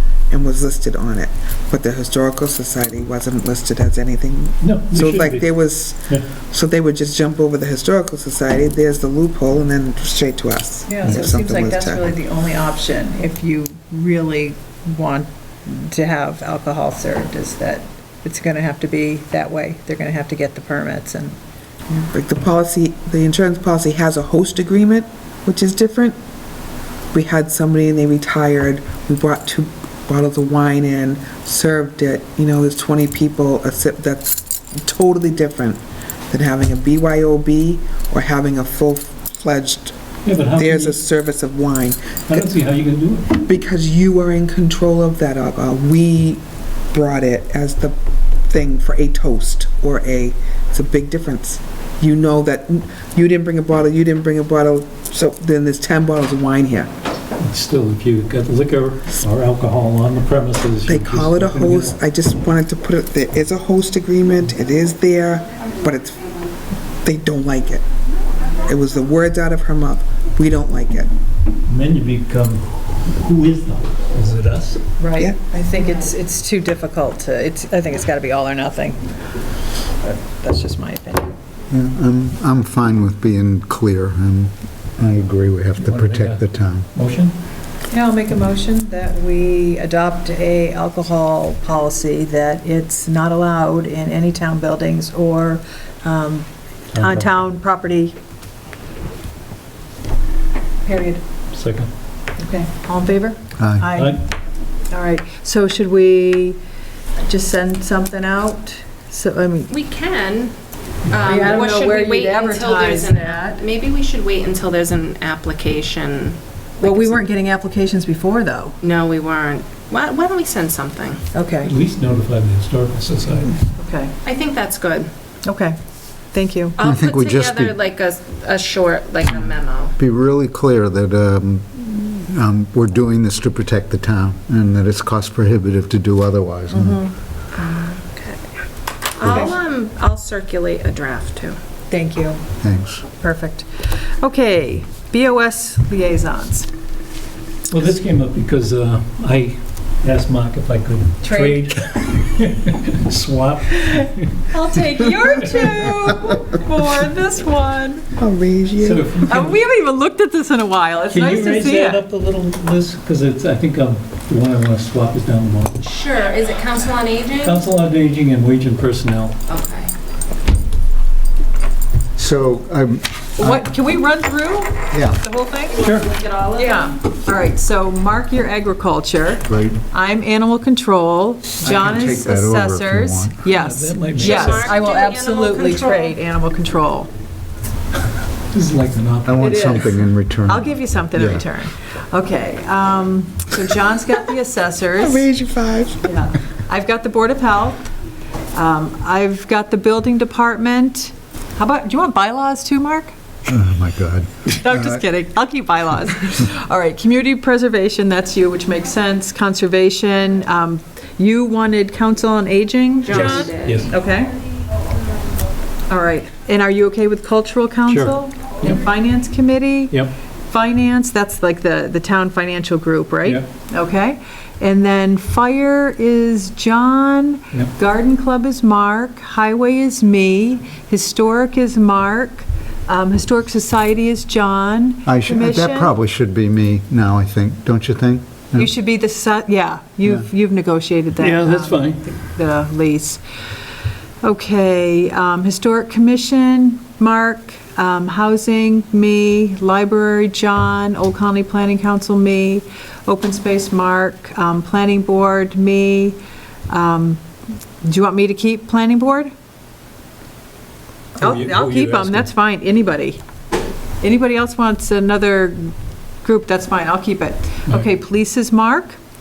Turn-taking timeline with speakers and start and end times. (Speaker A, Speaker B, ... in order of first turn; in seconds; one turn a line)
Speaker A: 0.3-12.1
Speaker B: 4.6-5.5
Speaker C: 10.9-21.4
Speaker A: 21.9-26.1
Speaker A: 27.1-39.9
Speaker B: 40.2-41.0
Speaker A: 40.5-42.4
Speaker B: 42.3-43.4
Speaker A: 43.4-48.0
Speaker A: 48.5-56.9
Speaker B: 57.4-62.0
Speaker A: 60.9-66.3
Speaker A: 67.0-67.8
Speaker A: 68.7-71.1
Speaker B: 71.7-74.8
Speaker C: 75.0-79.1
Speaker C: 80.0-81.3
Speaker D: 81.7-86.9
Speaker B: 85.8-86.4
Speaker B: 86.9-87.3
Speaker C: 87.9-98.2
Speaker B: 96.9-97.3
Speaker C: 100.8-101.2
Speaker B: 101.5-101.9
Speaker C: 102.4-104.2
Speaker D: 103.6-103.8
Speaker B: 103.9-104.2
Speaker C: 104.9-106.6
Speaker C: 107.2-109.7
Speaker E: 109.7-110.5
Speaker B: 111.0-111.6
Speaker E: 111.1-117.2
Speaker C: 111.2-113.6
Speaker C: 116.8-118.8
Speaker E: 118.8-121.2
Speaker C: 121.3-121.7
Speaker B: 121.6-123.6
Speaker C: 123.8-124.1
Speaker E: 124.2-125.1
Speaker C: 125.4-125.8
Speaker C: 126.3-126.8
Speaker E: 126.8-129.9
Speaker D: 126.8-127.8
Speaker D: 130.0-137.0
Speaker C: 136.7-137.1
Speaker E: 137.5-138.4
Speaker E: 139.1-141.6
Speaker D: 139.2-139.5
Speaker C: 141.9-142.4
Speaker D: 142.6-143.1
Speaker C: 143.2-146.7
Speaker B: 147.7-154.5
Speaker C: 151.2-151.6
Speaker C: 154.5-158.1
Speaker B: 155.3-155.6
Speaker A: 158.2-159.0
Speaker B: 158.8-159.6
Speaker C: 159.2-162.0
Speaker B: 161.1-165.8
Speaker E: 165.8-167.6
Speaker B: 167.4-169.4
Speaker E: 169.5-169.9
Speaker D: 172.2-173.6
Speaker C: 173.4-175.8
Speaker D: 174.9-175.2
Speaker E: 175.7-176.9
Speaker B: 175.8-176.1
Speaker C: 176.5-187.1
Speaker D: 179.4-179.8
Speaker D: 181.6-183.4
Speaker B: 183.5-184.8
Speaker E: 184.2-186.1
Speaker B: 188.5-189.7
Speaker D: 189.2-191.4
Speaker C: 189.4-195.2
Speaker A: 195.0-196.1
Speaker C: 196.0-197.9
Speaker C: 198.5-203.1
Speaker D: 203.5-205.0
Speaker C: 204.5-214.4
Speaker E: 213.1-213.8
Speaker B: 213.1-213.9
Speaker C: 215.9-220.0
Speaker B: 217.9-218.2
Speaker C: 220.5-235.9
Speaker D: 235.1-238.7
Speaker C: 238.6-243.2
Speaker B: 241.2-242.0
Speaker C: 244.2-257.2
Speaker C: 257.8-259.3
Speaker B: 261.2-262.3
Speaker C: 261.2-263.2
Speaker C: 264.0-269.0